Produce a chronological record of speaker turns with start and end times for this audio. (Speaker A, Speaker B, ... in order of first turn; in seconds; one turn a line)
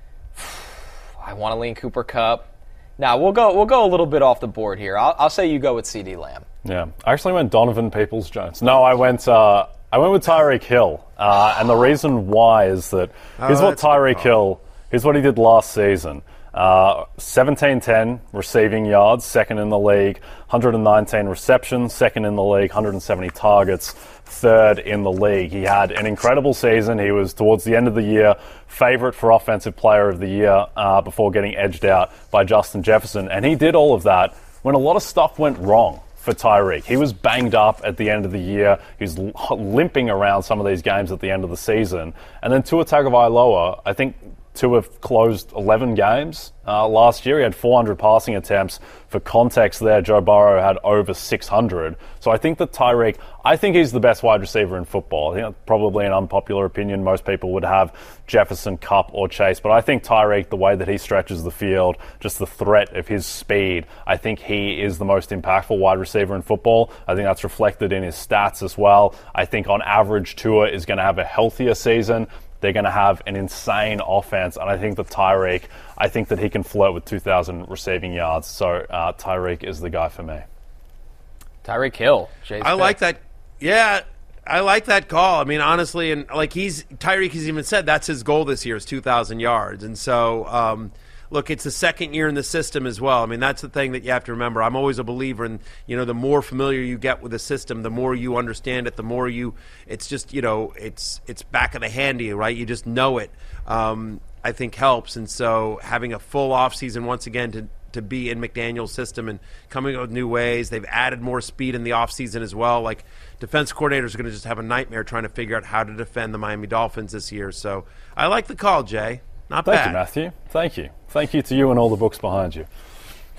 Speaker A: 0.4-6.5
Speaker B: 6.6-80.5
Speaker C: 13.4-14.3
Speaker A: 81.6-83.0
Speaker C: 82.6-120.0
Speaker B: 119.7-122.7